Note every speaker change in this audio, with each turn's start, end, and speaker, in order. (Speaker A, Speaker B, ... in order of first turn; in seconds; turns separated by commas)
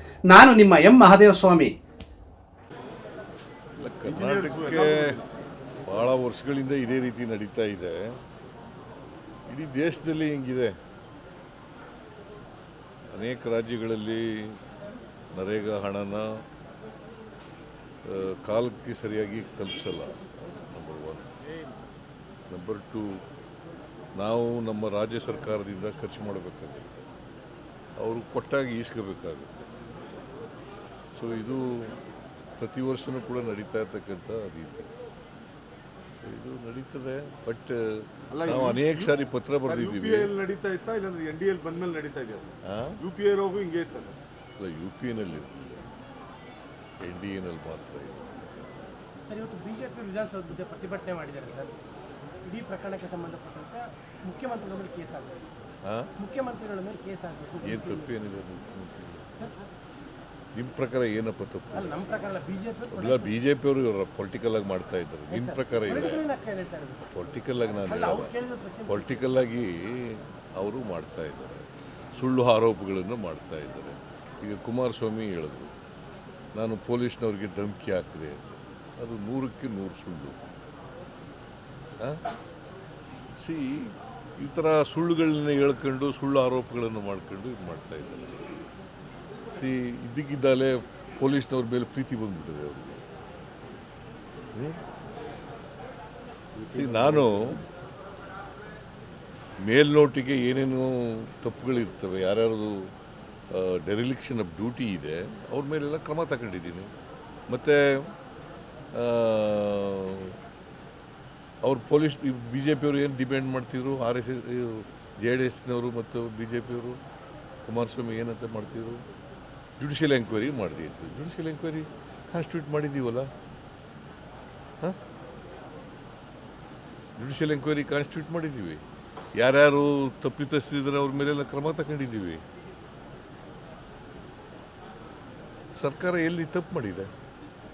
Speaker A: 3.8-5.2, Speaker B: 4.0-5.2, Speaker A: 5.8-8.2, Speaker A: 9.5-10.7, Speaker A: 13.1-14.6, Speaker A: 15.3-16.4, Speaker A: 18.0-21.3, Speaker A: 22.5-23.2, Speaker A: 24.1-27.1, Speaker A: 28.0-29.7, Speaker A: 31.1-31.9, Speaker A: 32.6-34.9, Speaker A: 36.1-40.3, Speaker B: 38.3-44.2, Speaker A: 42.6-43.0, Speaker A: 44.6-45.9, Speaker A: 47.0-48.8, Speaker C: 49.3-51.7, Speaker C: 52.4-55.4, Speaker A: 55.8-56.1, Speaker C: 56.2-58.1, Speaker A: 57.6-59.2, Speaker A: 60.5-62.0, Speaker C: 61.7-63.3, Speaker A: 62.9-66.2, Speaker C: 65.3-67.0, Speaker A: 67.0-68.3, Speaker C: 67.8-69.2, Speaker A: 68.9-75.7, Speaker A: 76.5-80.4, Speaker A: 83.4-88.6, Speaker A: 89.5-93.0, Speaker A: 94.5-94.8, Speaker B: 96.6-97.5, Speaker A: 96.7-97.6, Speaker A: 99.6-102.9, Speaker A: 103.5-106.9, Speaker A: 107.5-108.1, Speaker A: 108.9-110.4, Speaker A: 111.6-117.0, Speaker A: 117.7-119.0, Speaker A: 119.8-123.3, Speaker A: 127.2-128.8, Speaker A: 129.3-132.4, Speaker A: 135.8-137.1